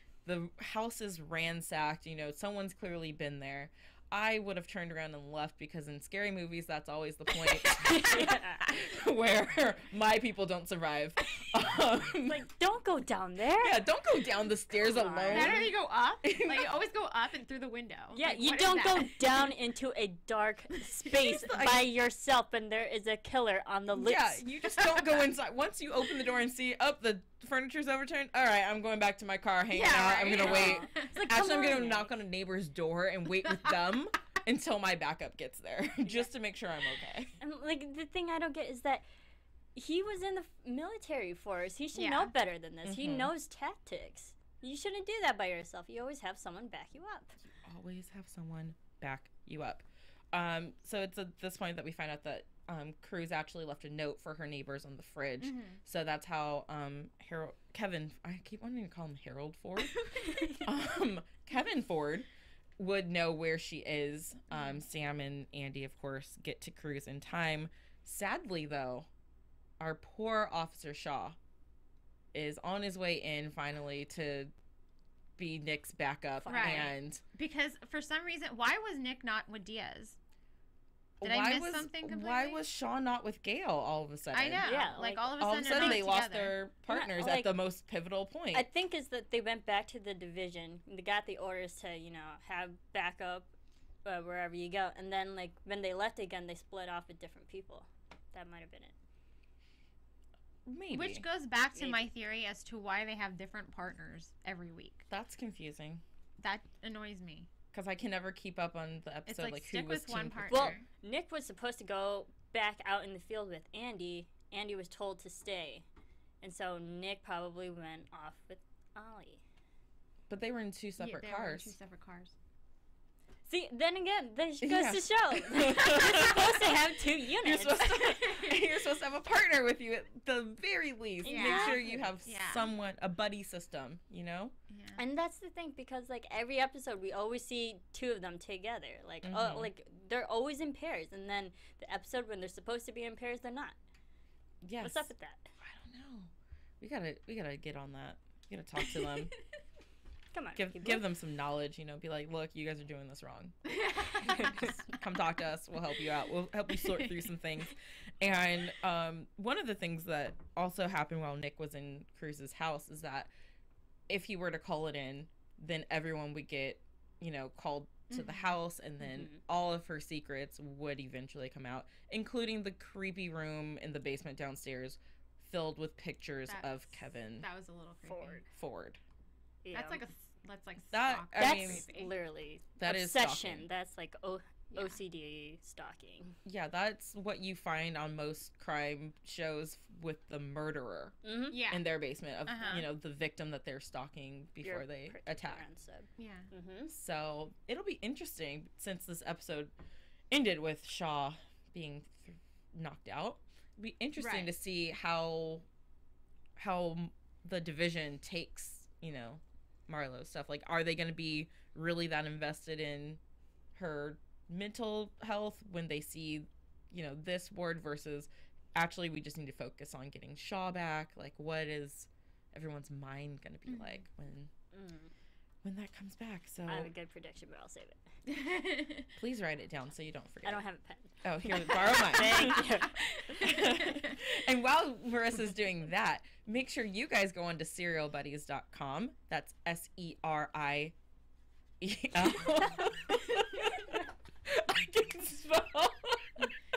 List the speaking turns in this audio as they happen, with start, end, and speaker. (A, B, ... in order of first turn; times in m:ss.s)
0:00.2-0:12.4 A
0:07.7-0:08.6 B
0:12.2-0:13.8 B
0:13.6-0:16.8 A
0:14.8-0:15.7 B
0:15.3-0:19.4 C
0:18.1-0:24.4 B
0:21.1-0:21.9 A
0:23.9-0:37.3 A
0:24.7-0:25.2 C
0:29.7-0:31.7 C
0:30.4-0:32.1 B
0:37.4-0:39.0 B
0:39.7-0:47.4 B
0:42.0-0:42.3 C
0:42.8-0:43.3 A
0:47.5-1:00.0 A
0:55.4-0:55.8 C
0:59.9-1:00.6 C
1:00.2-1:00.6 B
1:00.6-1:09.1 A
1:04.5-1:04.8 C
1:09.8-1:11.4 A
1:12.3-1:14.5 A
1:15.4-1:17.2 A
1:16.4-1:16.9 B
1:16.5-1:20.2 C
1:21.2-1:24.7 A
1:21.2-1:22.6 C
1:24.3-1:26.6 C
1:24.6-1:26.1 B
1:25.4-1:28.6 A
1:26.9-1:27.6 B
1:28.5-1:33.5 B
1:34.0-1:38.9 B
1:40.6-1:41.2 A
1:40.9-1:45.0 C
1:41.7-1:42.1 B
1:45.1-1:46.0 A
1:46.4-1:47.5 C
1:47.7-1:50.8 A
1:49.3-1:50.8 C
1:50.5-1:55.8 B
1:56.4-1:59.4 B
2:00.3-2:01.7 A
2:01.0-2:02.3 C
2:03.5-2:08.0 B
2:04.6-2:06.7 A
2:07.4-2:14.5 A
2:08.0-2:08.6 C
2:11.2-2:12.2 B
2:11.2-2:12.7 C
2:14.7-2:15.0 C
2:15.0-2:23.8 B
2:19.2-2:19.7 A
2:24.6-2:25.1 A
2:24.8-2:25.5 B
2:25.6-2:29.3 A
2:30.3-2:31.0 B
2:30.6-2:33.6 A
2:33.7-2:34.5 C
2:34.2-2:43.3 A
2:34.2-2:34.7 B
2:44.1-2:57.5 A
2:48.1-2:48.6 C
2:49.0-2:49.4 B
2:56.5-2:58.5 C
2:58.0-2:58.4 B
2:58.5-2:59.0 A
2:59.6-3:00.0 B
2:59.7-3:02.1 C
3:00.9-3:01.8 A
3:01.4-3:06.4 B
3:02.8-3:03.6 A
3:04.7-3:05.0 C
3:06.4-3:15.6 A
3:11.2-3:11.6 B
3:11.5-3:11.9 C
3:12.4-3:12.9 C
3:14.6-3:16.9 B
3:16.2-3:16.5 C
3:16.9-3:19.7 A
3:20.3-3:25.6 A
3:24.2-3:24.5 C
3:26.6-3:33.2 A
3:33.7-3:44.5 A
3:43.7-3:44.0 C
3:44.7-3:45.1 B
3:45.6-3:46.9 A
3:46.7-3:48.0 B
3:48.3-3:49.1 C
3:49.2-3:50.6 A
3:50.4-3:53.0 B
3:51.2-4:00.9 A
3:52.2-3:54.1 C
4:01.8-4:06.5 A